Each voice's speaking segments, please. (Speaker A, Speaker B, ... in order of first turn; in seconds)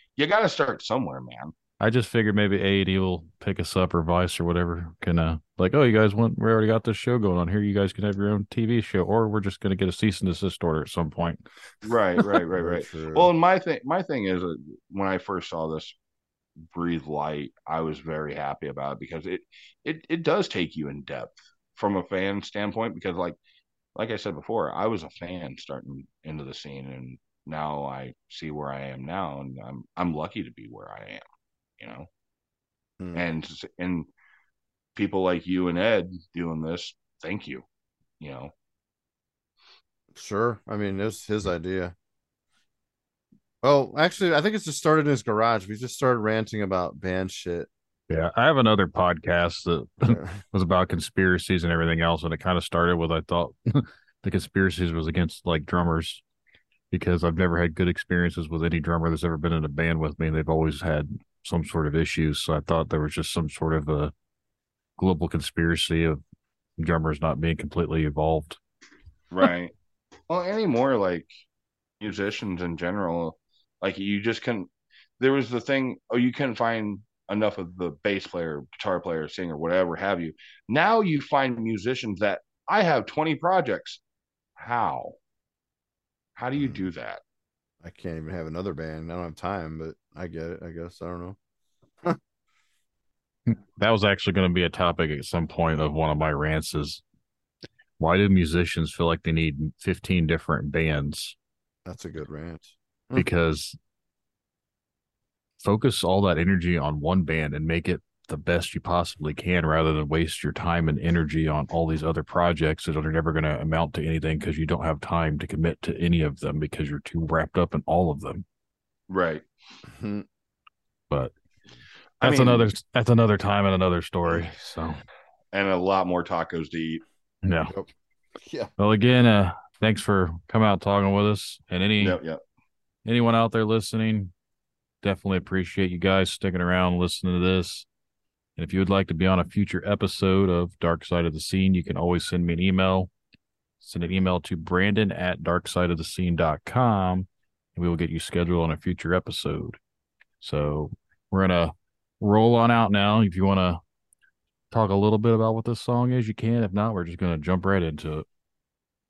Speaker A: 0.2-1.5, 11.8-15.9, 16.7-23.4, 23.9-31.2, 31.8-32.1, 33.1-34.1, 35.0-37.6, 38.2-38.5, 69.3-69.7, 70.3-71.3, 72.0-74.7, 75.2-84.0, 84.6-85.2, 86.4-87.2, 119.1-119.4, 122.2-122.7, 125.5-127.0, 132.0-132.4
Speaker B: 1.8-11.4, 48.1-56.2, 56.9-64.1, 65.0-66.2, 66.8-68.6, 93.5-97.0, 98.0-101.3, 103.2-103.8, 105.6-118.4, 122.2-125.0, 127.4-127.7, 128.8-132.2, 133.0-134.3, 135.0-137.9, 138.6-143.1, 143.8-149.8, 150.4-153.8, 154.7-158.2
Speaker C: 12.5-13.3, 33.0-33.2, 40.1-41.9, 43.6-47.7, 50.0-50.3, 87.8-91.4, 101.8-103.3, 119.9-120.2, 128.4-128.7